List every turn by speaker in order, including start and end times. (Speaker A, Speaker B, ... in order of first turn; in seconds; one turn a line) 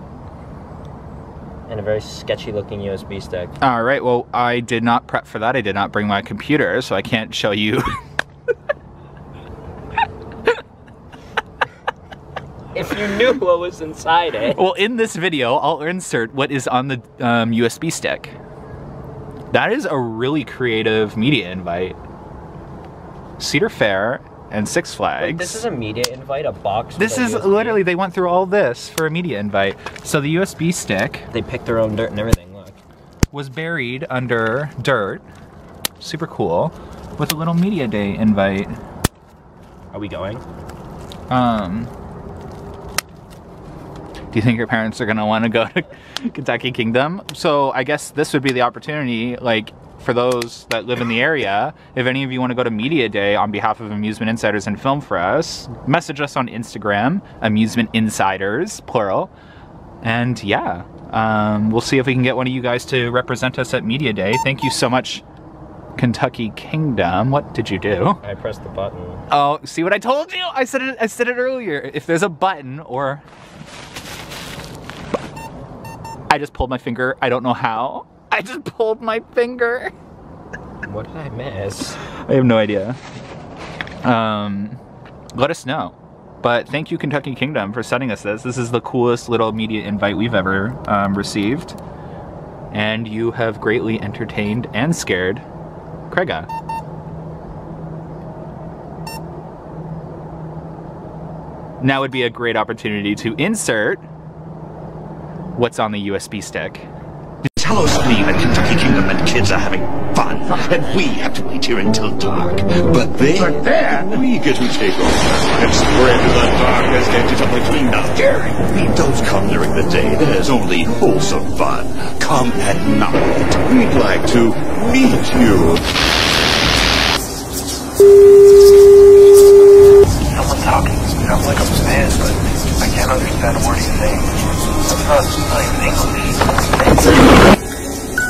Speaker A: 1.7-3.6
Speaker B: 3.6-8.0
Speaker A: 12.7-14.6
Speaker B: 14.5-18.4
Speaker B: 19.5-22.0
Speaker B: 23.4-25.6
Speaker A: 25.2-27.8
Speaker B: 27.0-31.3
Speaker A: 31.3-32.8
Speaker B: 33.3-35.2
Speaker B: 36.0-38.8
Speaker A: 39.9-40.4
Speaker B: 41.3-41.9
Speaker B: 44.3-59.3
Speaker B: 60.0-65.2
Speaker B: 66.0-68.2
Speaker A: 68.2-69.2
Speaker B: 69.3-73.2
Speaker B: 76.3-79.9
Speaker A: 80.8-82.0
Speaker B: 82.0-83.0
Speaker B: 84.0-84.8
Speaker B: 85.3-91.8
Speaker B: 92.7-95.4
Speaker B: 96.1-96.5
Speaker B: 101.8-104.0
Speaker B: 105.6-106.9
Speaker C: 107.5-125.8
Speaker D: 130.3-132.4
Speaker D: 133.1-134.3
Speaker D: 134.9-137.0